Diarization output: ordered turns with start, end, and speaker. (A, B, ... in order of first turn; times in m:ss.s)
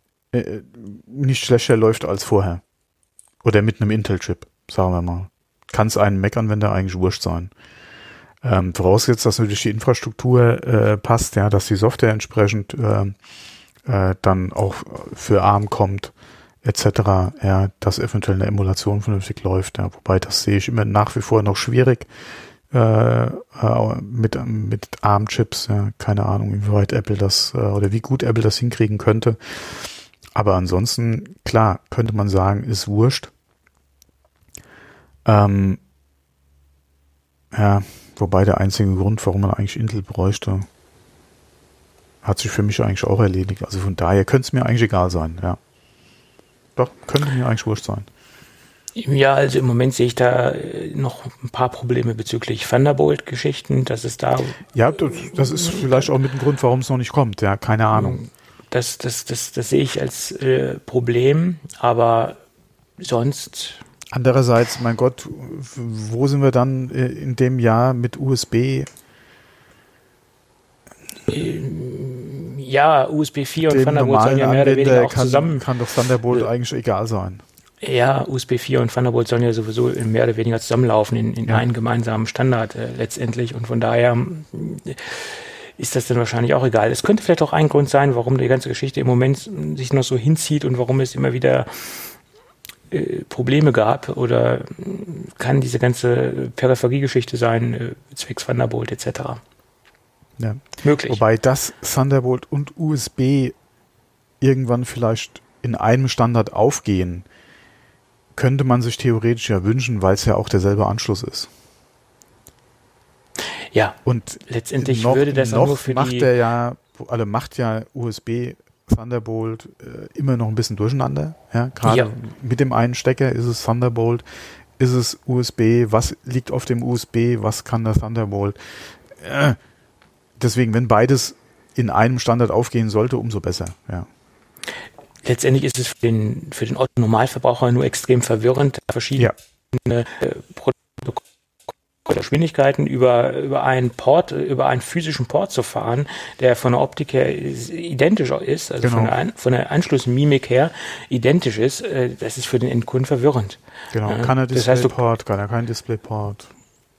0:00.3-0:02.6 A
0:03.4-0:07.5 A
0:08.4-0:13.2 A
0:13.8-0:22.1 A
0:22.7-0:33.3 A
0:35.2-0:35.8 A
0:37.5-0:40.7 A
0:42.2-0:45.6 A
0:46.8-0:48.1 A
0:49.0-0:56.0 B
0:54.7-0:58.2 A
0:57.9-1:02.4 B
1:03.0-1:03.8 B
1:04.1-1:08.9 A
1:11.3-1:15.6 B
1:13.6-1:17.4 A
1:17.8-1:32.1 B
1:32.9-1:39.4 B
1:40.4-1:43.6 A
1:40.8-1:41.2 B
1:44.4-1:47.3 A
1:48.4-1:51.5 A
1:53.7-1:56.3 B
1:54.0-2:04.2 A
2:01.8-2:02.1 B
2:04.8-2:09.6 A
2:10.4-2:14.1 A
2:15.2-2:21.2 B
2:22.0-2:35.0 B
2:28.8-2:29.2 A
2:33.9-2:36.5 A